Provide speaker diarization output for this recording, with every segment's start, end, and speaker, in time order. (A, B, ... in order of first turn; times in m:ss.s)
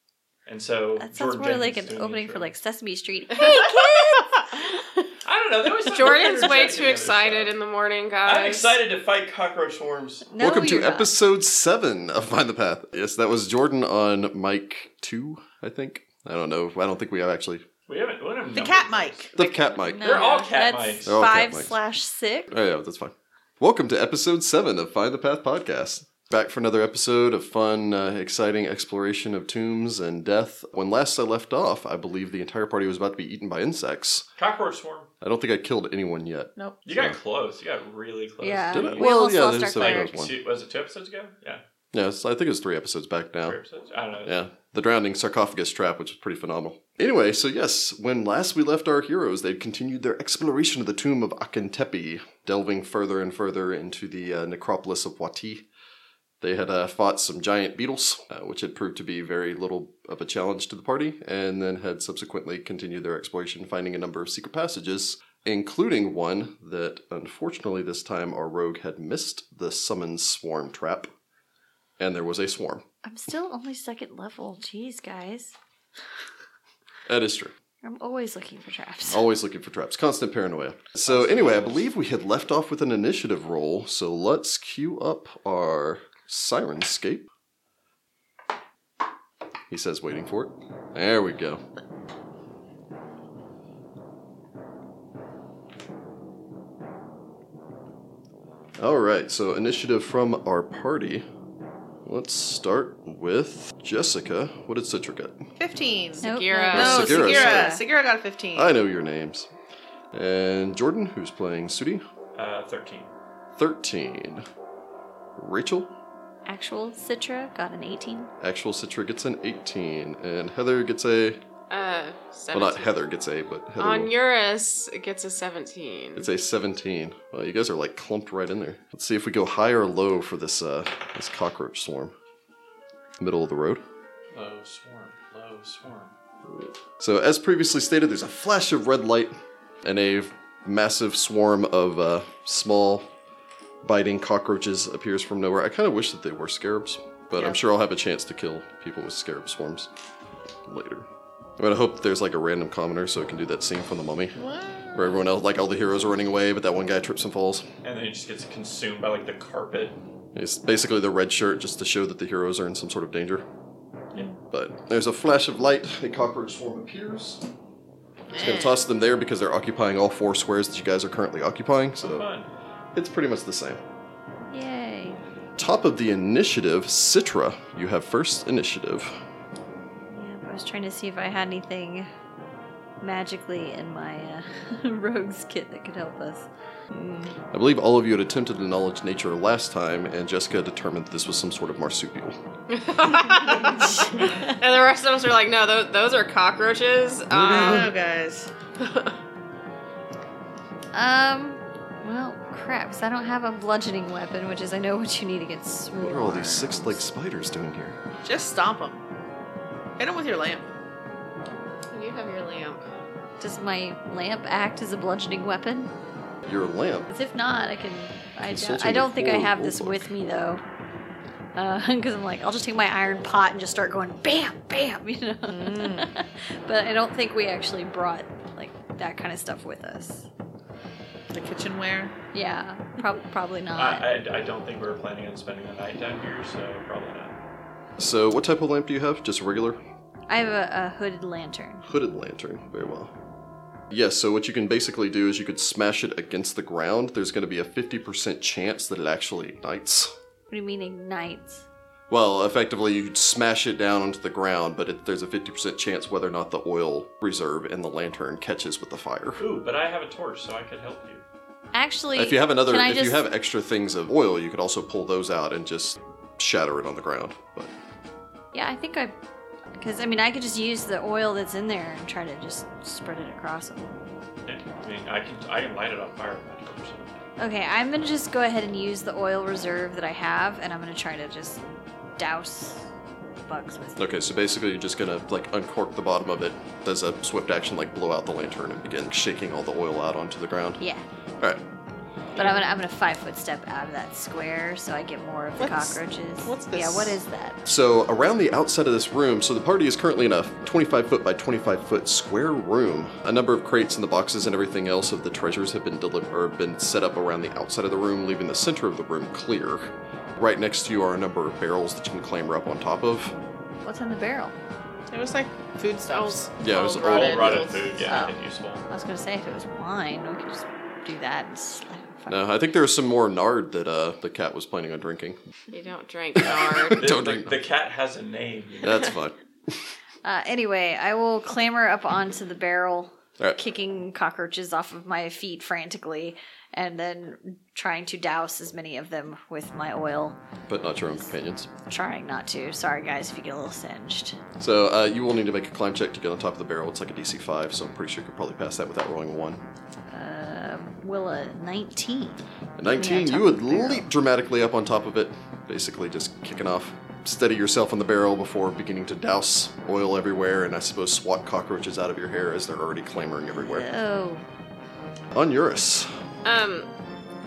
0:00.4-0:02.5 A
0:01.0-0:04.2 B
0:03.3-0:05.0 C
0:05.2-0:07.5 A
0:05.8-0:08.8 C
0:08.2-0:10.3 A
0:10.3-0:11.1 B
0:10.4-0:17.6 D
0:17.9-0:19.3 A
0:18.5-0:19.3 E
0:19.3-0:20.2 D
0:19.4-0:22.5 B
0:20.0-0:21.2 A
0:21.0-0:21.8 D
0:22.5-0:34.3 D
0:34.4-0:35.1 A
0:35.2-0:37.2 D
0:36.8-0:41.6 A
0:38.4-0:40.1 B
0:38.7-0:40.3 D
0:41.9-0:43.6 D
0:43.4-0:44.3 A
0:44.2-0:55.7 D
0:56.4-1:11.1 D
1:12.0-1:12.8 D
1:13.0-1:15.6 B
1:17.1-1:17.5 D
1:17.8-1:19.2 B
1:19.1-1:27.3 D
1:21.1-1:21.6 A
1:29.7-1:31.6 D
1:38.8-1:41.2 D
1:42.0-1:45.5 D
1:45.6-1:48.8 E
1:46.2-1:47.3 C
1:46.2-1:47.9 B
1:46.7-1:47.8 D
1:48.5-1:49.5 D
1:50.1-1:52.0 D
1:52.4-1:53.1 A
1:53.6-1:54.4 D
1:55.4-1:55.9 D
1:56.4-1:58.3 B
1:58.4-2:01.4 D
2:01.7-2:02.9 C
2:02.5-2:04.1 D
2:03.8-2:06.3 C
2:06.2-2:12.1 D
2:13.2-2:13.8 D
2:14.3-2:16.1 A
2:16.4-2:23.1 D
2:23.8-2:29.9 D
2:30.7-2:34.4 D
2:34.4-2:35.2 E
2:34.9-2:37.6 D
2:37.8-2:40.0 A
2:40.3-2:43.4 D
2:44.5-2:47.4 D
2:48.3-2:48.8 C
2:48.3-2:52.3 D
2:52.0-2:52.5 A
2:52.9-2:53.8 D
2:54.5-2:55.2 B
2:55.6-2:59.1 D
3:00.1-3:02.1 B
3:03.0-3:07.3 B
3:07.5-3:12.4 D
3:12.7-3:17.9 C
3:17.3-3:17.9 D
3:17.3-3:18.5 E
3:18.8-3:19.1 C
3:20.9-3:27.0 B
3:25.9-3:28.0 D
3:28.2-3:29.0 E
3:30.0-3:30.7 E
3:31.9-3:32.8 C
3:33.4-3:35.9 B
3:36.4-3:37.1 D
3:37.1-3:40.6 B
3:38.4-3:40.1 D
3:41.6-3:50.3 B
3:45.5-3:46.1 E
3:51.3-3:52.1 E
3:52.3-3:54.1 B
3:53.8-3:57.3 A
3:58.0-3:59.8 D
4:00.3-4:01.8 B
4:01.8-4:03.1 D
4:03.9-4:10.1 D
4:10.5-4:11.6 B
4:12.1-4:19.4 D
4:19.4-4:21.2 A
4:21.7-4:23.2 B
4:22.1-4:27.7 D
4:28.5-4:29.2 B
4:29.8-4:34.0 B
4:34.4-4:37.2 A
4:37.4-4:42.9 B
4:43.4-4:44.0 B
4:44.0-4:50.8 D
4:50.8-4:51.0 B
4:52.4-4:57.6 B
4:55.6-4:57.2 E
4:57.6-5:13.3 D
5:13.8-5:14.5 B
5:15.1-5:16.5 E
5:16.1-5:18.2 C
5:16.6-5:17.7 D
5:17.0-5:18.8 A
5:18.1-5:18.4 B
5:18.9-5:22.4 B
5:22.3-5:25.4 D
5:25.7-5:27.1 C
5:26.4-5:29.1 A
5:26.7-5:27.6 D
5:28.8-5:29.8 D
5:30.2-5:40.4 B
5:40.7-5:41.7 D
5:41.9-5:44.4 B
5:44.6-5:49.6 D
5:50.1-5:52.4 B
5:52.8-6:03.8 D
5:52.9-5:54.0 B
6:03.5-6:04.4 B
6:05.3-6:06.1 D
6:06.4-6:06.9 C